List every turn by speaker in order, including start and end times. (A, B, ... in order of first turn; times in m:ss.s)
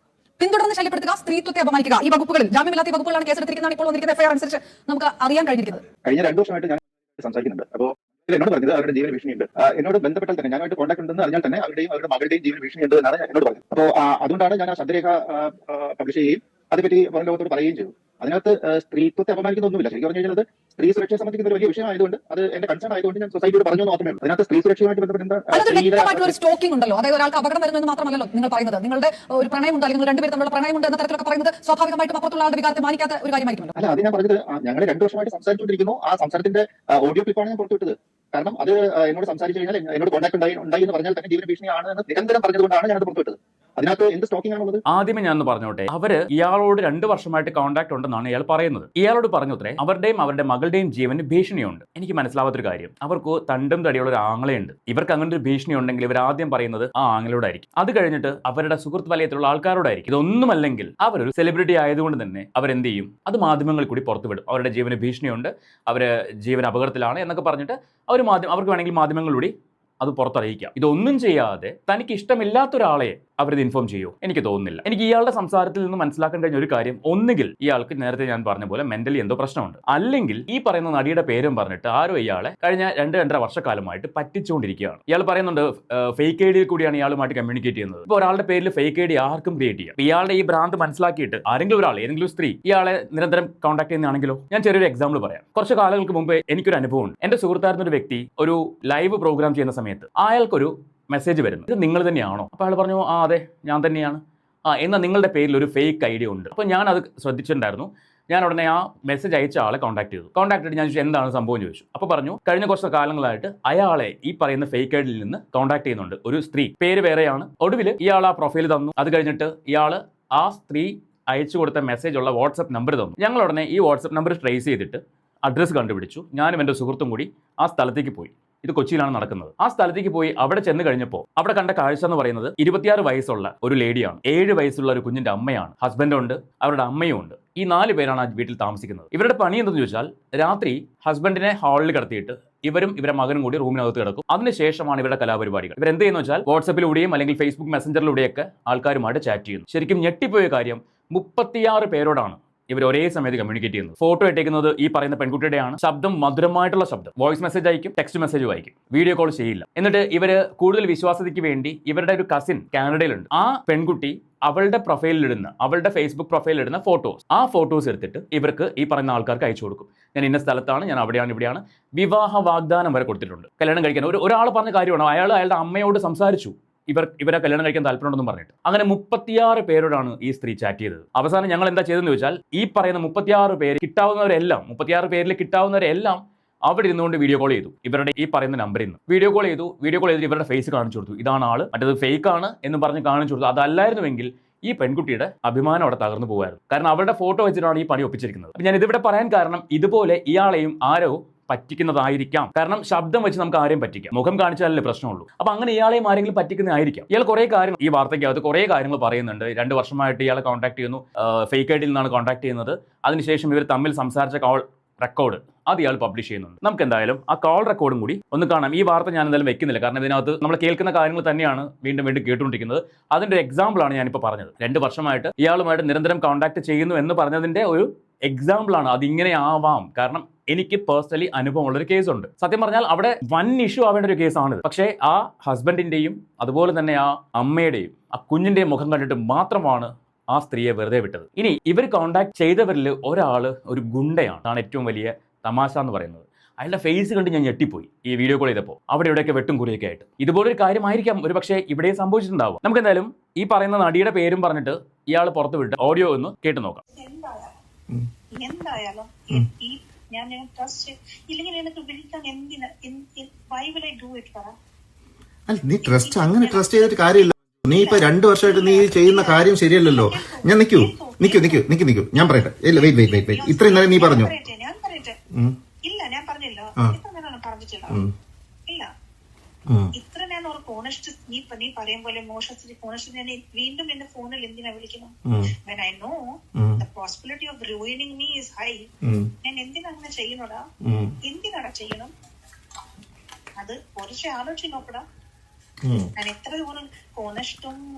0:00.4-0:05.8 A
0:06.0-0:26.3 B
0:25.5-0:33.7 A
0:33.8-0:44.8 B
0:44.9-4:16.8 C
4:16.9-4:17.5 D
4:18.4-4:24.5 D
4:25.5-4:34.3 E
4:25.8-4:31.7 D
4:32.7-4:35.2 D
4:35.8-4:38.0 D
4:39.9-4:46.2 D
4:45.2-4:45.5 E
4:46.6-4:46.8 E
4:46.8-4:48.9 D
4:49.0-4:49.3 E
4:49.4-4:50.6 D
4:50.8-4:51.1 E
4:51.2-4:52.1 D
4:53.6-4:55.0 D
4:55.8-4:56.1 E
4:56.1-4:57.8 D